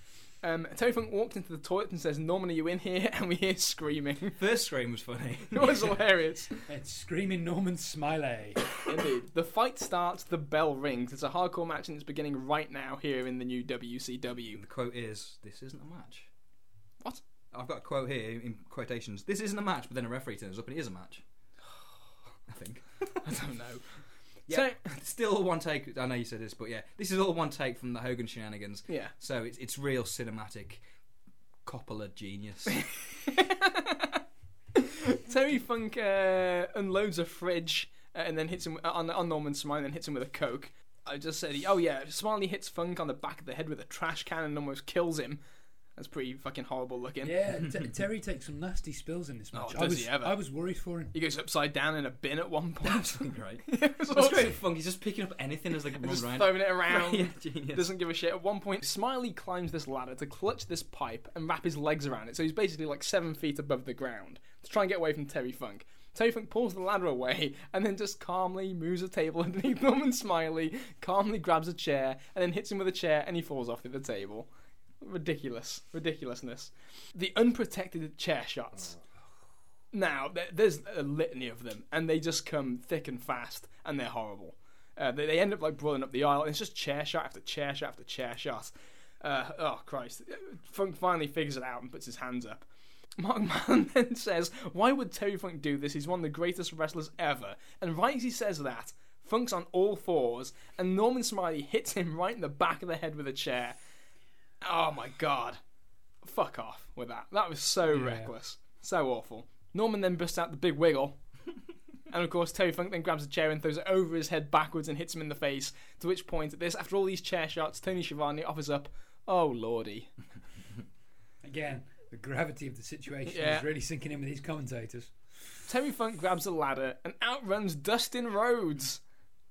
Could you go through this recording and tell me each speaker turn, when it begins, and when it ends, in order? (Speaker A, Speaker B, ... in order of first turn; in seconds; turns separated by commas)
Speaker A: 0.4-4.4, Speaker B: 4.4-5.9, Speaker A: 5.5-6.6, Speaker C: 6.7-8.7, Speaker A: 8.8-14.6, Speaker B: 14.5-16.3, Speaker B: 17.5-21.2, Speaker B: 22.5-23.2, Speaker A: 23.2-23.8, Speaker A: 24.5-24.8, Speaker B: 24.5-30.8, Speaker B: 31.7-32.9, Speaker A: 32.8-34.2, Speaker A: 34.8-45.4, Speaker A: 46.0-47.3, Speaker C: 47.2-51.1, Speaker A: 49.5-50.4, Speaker A: 51.1-54.6, Speaker B: 52.8-57.9, Speaker A: 55.9-74.5, Speaker A: 75.0-79.0, Speaker A: 79.9-92.7, Speaker A: 93.2-103.8, Speaker A: 104.6-105.6, Speaker A: 106.2-111.2, Speaker C: 107.9-108.3, Speaker A: 112.1-120.1, Speaker C: 121.4-125.1, Speaker A: 123.3-123.7, Speaker A: 125.7-129.0